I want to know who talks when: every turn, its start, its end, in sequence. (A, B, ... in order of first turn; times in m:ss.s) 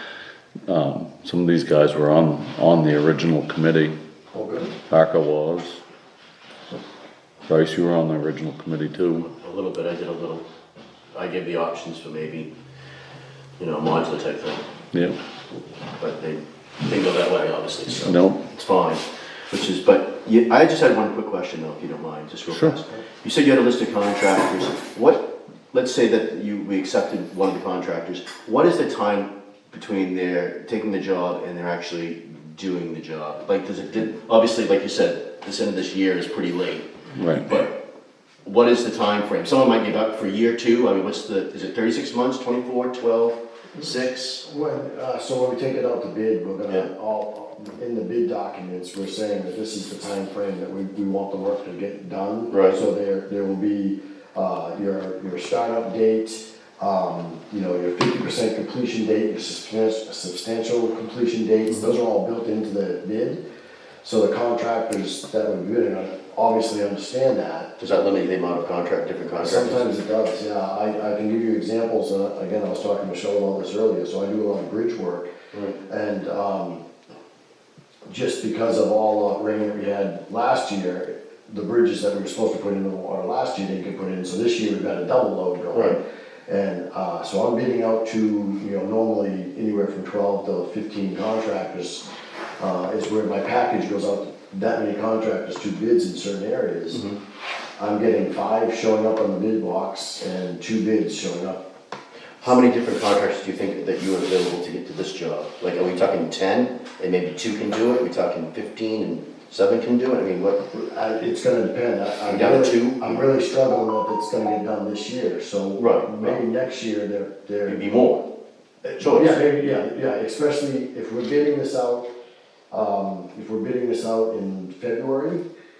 0:00.7-0:04.0 A
0:04.3-0:04.7 B
0:04.9-0:05.8 A
0:07.5-0:09.3 A
0:09.2-0:10.4 C
0:11.1-0:12.5 C
0:13.6-0:14.6 C
0:14.9-0:15.2 A
0:16.0-0:36.9 C
0:18.0-0:18.5 A
0:22.5-0:22.8 A
0:37.2-0:37.5 A
0:37.4-0:37.8 C
0:38.4-0:44.5 C
0:43.8-1:03.4 B
0:52.5-0:52.8 C
1:04.0-1:07.7 B
1:07.8-1:09.9 C
1:09.4-1:16.8 B
1:18.1-1:32.1 B
1:32.6-1:37.1 B
1:37.8-1:41.6 B
1:42.4-1:50.6 C
1:50.7-1:57.9 B
1:52.3-1:53.2 C
1:55.8-1:56.4 C
1:57.7-1:58.3 C
1:58.8-1:59.4 C
1:59.0-2:02.1 B
2:02.7-2:05.4 B